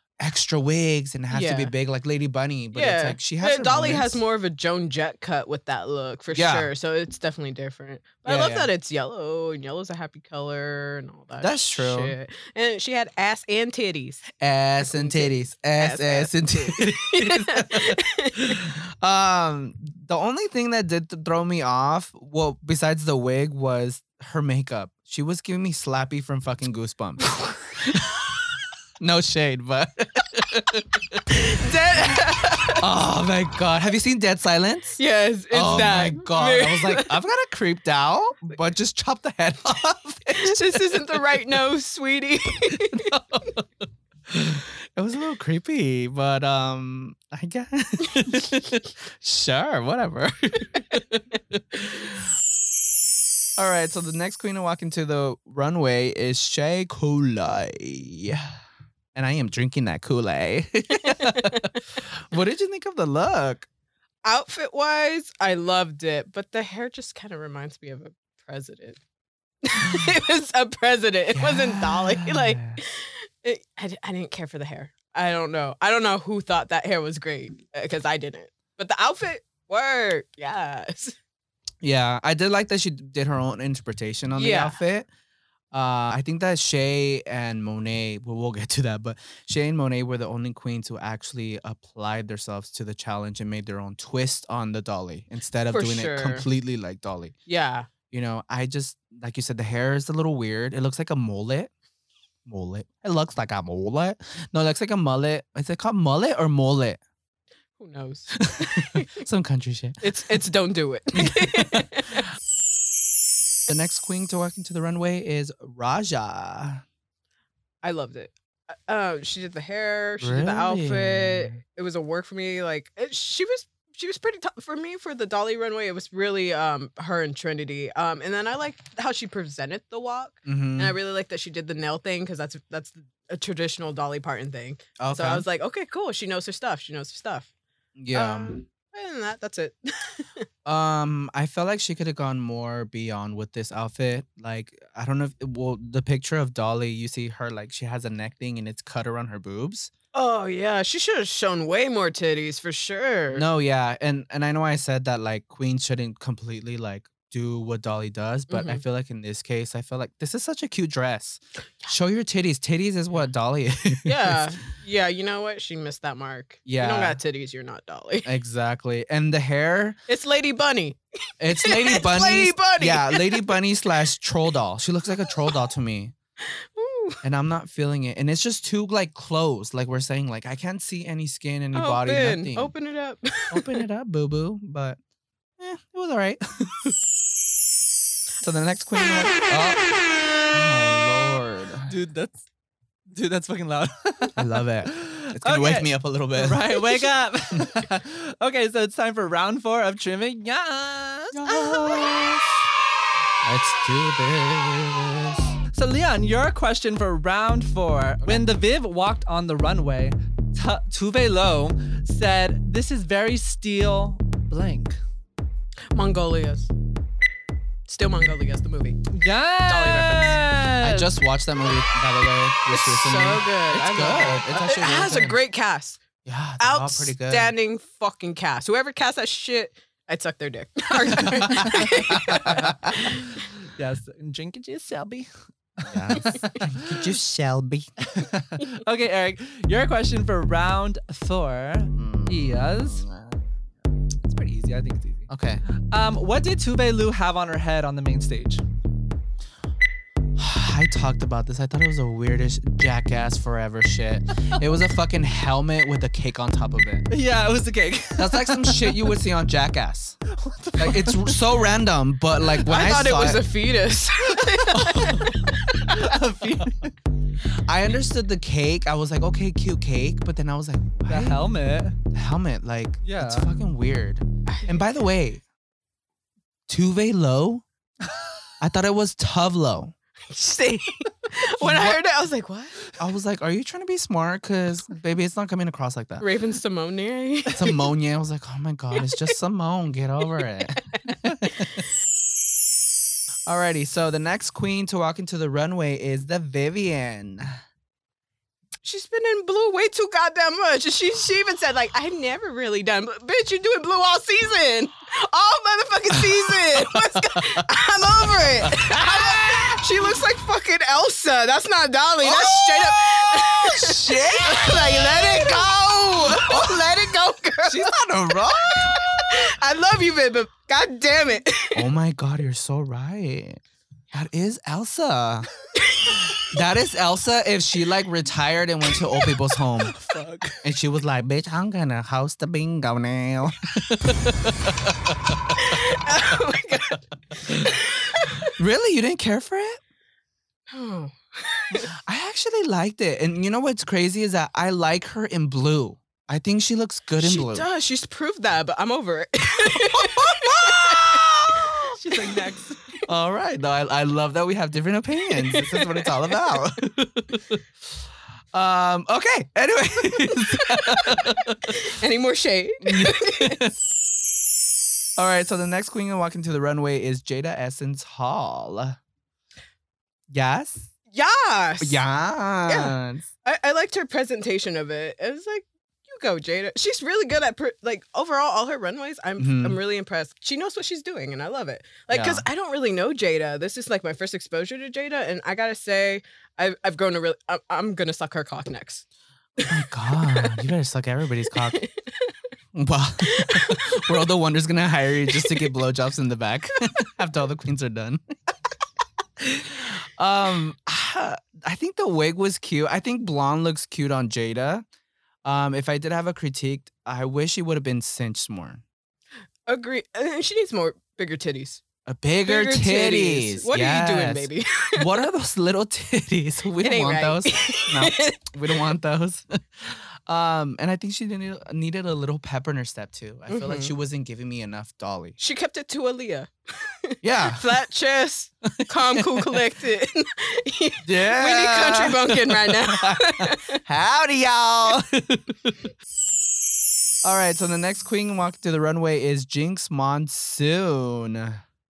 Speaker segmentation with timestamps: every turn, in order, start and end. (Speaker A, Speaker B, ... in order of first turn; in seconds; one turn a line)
Speaker A: 0.2-4.2
Speaker B: 1.3-1.7
Speaker B: 2.7-14.3
Speaker A: 6.3-6.7
Speaker A: 8.2-8.7
Speaker A: 11.4-12.1
Speaker A: 14.4-28.4
Speaker B: 14.8-18.6
Speaker A: 29.0-31.2
Speaker B: 31.4-32.8
Speaker A: 32.8-35.0
Speaker B: 35.0-37.1
Speaker A: 35.5-41.4
Speaker B: 40.3-43.2
Speaker A: 42.9-43.6
Speaker A: 44.3-52.2
Speaker A: 53.6-58.6
Speaker A: 59.1-63.7
Speaker B: 61.0-61.8
Speaker B: 64.2-69.0
Speaker B: 69.6-81.2
Speaker A: 69.8-70.1
Speaker A: 71.3-72.8
Speaker A: 81.8-85.1
Speaker B: 84.3-84.8
Speaker A: 85.7-97.3
Speaker B: 95.7-96.5
Speaker B: 97.5-97.9
Speaker A: 98.1-101.7
Speaker A: 102.5-107.0
Speaker B: 107.8-109.2
Speaker A: 108.4-110.2
Speaker B: 110.0-112.2
Speaker A: 111.1-112.0
Speaker A: 113.7-116.8
Speaker B: 117.8-137.5
Speaker A: 120.2-121.6
Speaker A: 130.4-130.9
Speaker A: 135.0-135.4
Speaker A: 137.9-138.6
Speaker B: 138.1-140.4
Speaker A: 140.6-149.9
Speaker B: 150.1-153.4
Speaker A: 153.3-164.5
Speaker B: 158.5-158.8
Speaker B: 164.0-168.3
Speaker A: 166.7-167.2
Speaker A: 168.2-170.0
Speaker B: 170.1-173.6
Speaker A: 171.4-176.1
Speaker B: 176.4-177.2
Speaker A: 177.2-182.7
Speaker B: 181.7-183.8
Speaker A: 183.5-185.0
Speaker A: 185.6-186.9
Speaker A: 188.4-189.9
Speaker A: 190.5-191.9
Speaker C: 191.8-192.4
Speaker C: 193.1-202.1
Speaker A: 194.3-196.8
Speaker A: 201.3-202.6
Speaker A: 203.4-205.6
Speaker C: 205.7-215.0
Speaker B: 215.9-216.7
Speaker B: 217.9-219.0
Speaker C: 219.1-221.1
Speaker B: 219.7-220.4
Speaker A: 220.8-225.4
Speaker B: 222.7-226.0
Speaker A: 226.2-227.5
Speaker B: 226.6-233.3
Speaker A: 231.4-233.1
Speaker C: 232.6-237.1
Speaker A: 235.8-238.0
Speaker C: 238.0-243.0
Speaker A: 241.9-243.5
Speaker C: 244.2-248.6
Speaker A: 245.3-245.6
Speaker A: 250.4-257.1
Speaker C: 257.1-259.0
Speaker A: 258.2-260.2
Speaker C: 260.3-261.5
Speaker A: 260.8-263.4
Speaker B: 262.6-266.1
Speaker A: 264.8-265.2
Speaker C: 265.0-266.9
Speaker A: 267.5-271.4
Speaker C: 271.1-272.0
Speaker A: 272.1-275.4
Speaker C: 273.0-273.5
Speaker A: 276.7-277.6
Speaker A: 278.6-279.9
Speaker B: 280.3-282.8
Speaker A: 281.6-282.0
Speaker A: 283.0-286.3
Speaker B: 286.2-287.8
Speaker A: 287.5-291.8
Speaker B: 288.9-289.2
Speaker B: 290.9-291.3
Speaker A: 293.5-297.6
Speaker B: 298.8-317.9
Speaker A: 306.2-307.6
Speaker A: 308.6-309.9
Speaker A: 312.2-317.1
Speaker A: 317.6-319.4
Speaker B: 318.7-321.9
Speaker A: 321.7-325.5
Speaker B: 325.8-326.3
Speaker A: 326.5-329.9
Speaker C: 329.8-330.6
Speaker A: 330.6-335.8
Speaker B: 335.5-338.5
Speaker A: 336.3-337.7
Speaker A: 338.5-339.8
Speaker B: 340.7-341.9
Speaker A: 341.9-347.6
Speaker B: 347.2-351.3
Speaker A: 349.8-352.0
Speaker C: 351.9-352.8
Speaker A: 353.1-357.6
Speaker B: 355.4-356.1
Speaker A: 358.5-361.8
Speaker B: 360.8-363.6
Speaker A: 362.8-363.8
Speaker A: 365.2-369.0
Speaker A: 370.3-370.9
Speaker B: 371.1-372.0
Speaker A: 371.8-373.3
Speaker B: 372.7-389.1
Speaker A: 379.4-379.8
Speaker A: 382.1-382.4
Speaker B: 389.6-390.6
Speaker A: 389.7-391.8
Speaker B: 391.6-392.3
Speaker A: 392.7-398.2
Speaker B: 393.2-394.2
Speaker B: 395.3-395.7
Speaker A: 399.4-404.9
Speaker A: 405.4-408.8
Speaker B: 409.7-411.8
Speaker A: 412.1-425.4
Speaker B: 412.4-415.1
Speaker B: 416.8-418.5
Speaker B: 423.5-423.9
Speaker B: 425.4-433.8
Speaker A: 427.2-427.6
Speaker A: 428.8-429.6
Speaker A: 431.0-435.7
Speaker A: 437.2-441.6